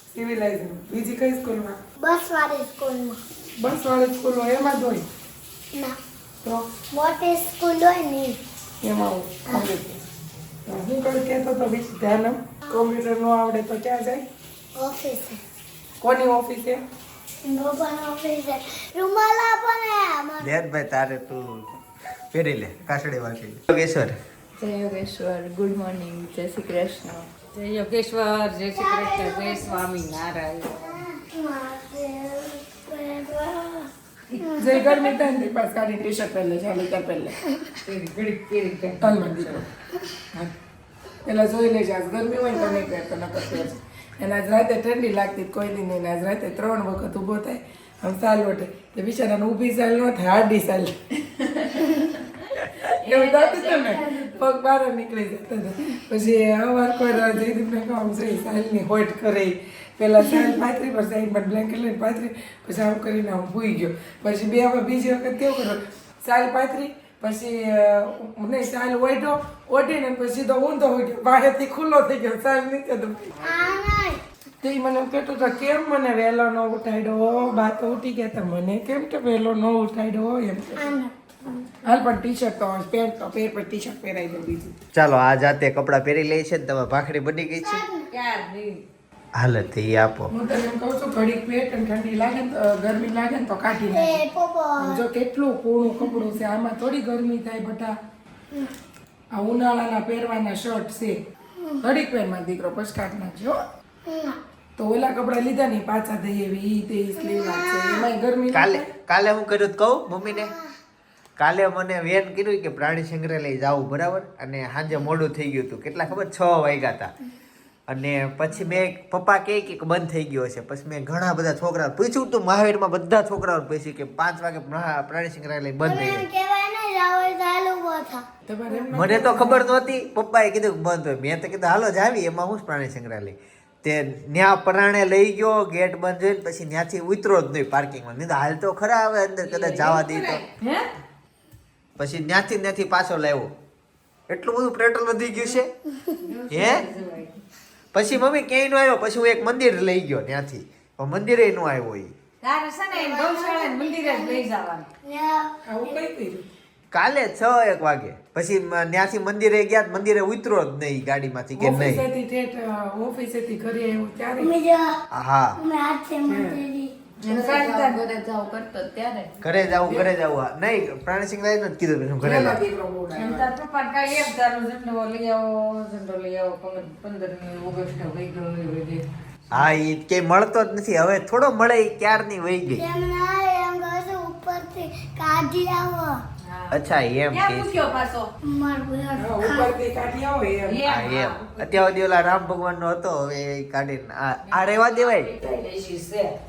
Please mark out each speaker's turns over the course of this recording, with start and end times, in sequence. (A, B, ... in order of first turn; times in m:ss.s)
0:00.1-0:01.8 A
0:02.0-0:03.2 B
0:03.6-0:05.0 A
0:05.7-0:06.0 B
0:06.9-0:08.4 B
0:08.8-0:10.0 A
0:10.7-0:14.2 A
0:14.8-0:15.4 B
0:16.0-0:16.8 A
0:17.4-0:20.5 B
0:20.4-0:21.7 C
0:22.3-0:24.2 C
0:24.6-0:27.3 D
0:27.5-0:30.9 E
0:28.7-0:29.8 B
0:30.7-0:35.2 B
0:34.6-0:37.4 A
0:37.8-0:39.6 E
0:39.0-0:39.6 A
0:41.2-0:51.0 A
0:52.5-1:13.4 A
0:53.0-0:54.5 D
1:13.4-1:14.2 B
1:14.6-1:20.9 A
1:20.8-1:21.7 B
1:21.8-1:24.7 A
1:24.9-1:27.8 C
1:27.6-1:28.1 B
1:28.1-1:28.8 E
1:29.4-1:30.3 C
1:30.3-1:34.2 A
1:33.7-1:35.0 B
1:34.8-1:37.9 A
1:39.3-1:41.2 A
1:41.6-1:41.8 B
1:41.8-1:43.6 A
1:44.0-1:44.4 B
1:44.8-1:48.9 A
1:47.2-1:48.1 B
1:48.5-1:50.5 C
1:50.3-1:50.6 B
1:51.4-1:57.1 C
1:57.9-2:06.2 C
2:05.8-2:08.2 B
2:08.5-2:09.8 A
2:08.9-2:20.4 C
2:19.4-2:20.8 E
2:22.0-2:23.5 C
2:24.3-2:25.7 C
2:25.9-2:26.2 B
2:26.3-2:27.3 E
2:26.5-2:26.8 C
2:27.9-2:32.1 C
2:32.4-2:34.9 E
2:32.9-2:34.4 B
2:35.0-2:36.1 B
2:35.7-2:36.4 A
2:36.9-2:42.1 C
2:41.6-2:44.5 A
2:44.4-2:45.0 B
2:45.1-2:45.6 C
2:45.6-2:46.9 B
2:46.3-2:46.6 A
2:47.2-2:48.4 E
2:47.3-2:49.3 D
2:47.3-2:47.9 A
2:49.4-2:52.6 C
2:52.2-2:53.5 A
2:53.1-2:59.0 E
2:59.5-3:02.8 C
3:02.8-3:06.2 B
3:06.4-3:08.3 E
3:06.7-3:07.8 C
3:08.4-3:09.7 B
3:09.2-3:10.8 A
3:10.6-3:12.0 E
3:10.8-3:15.3 C
3:14.4-3:16.4 E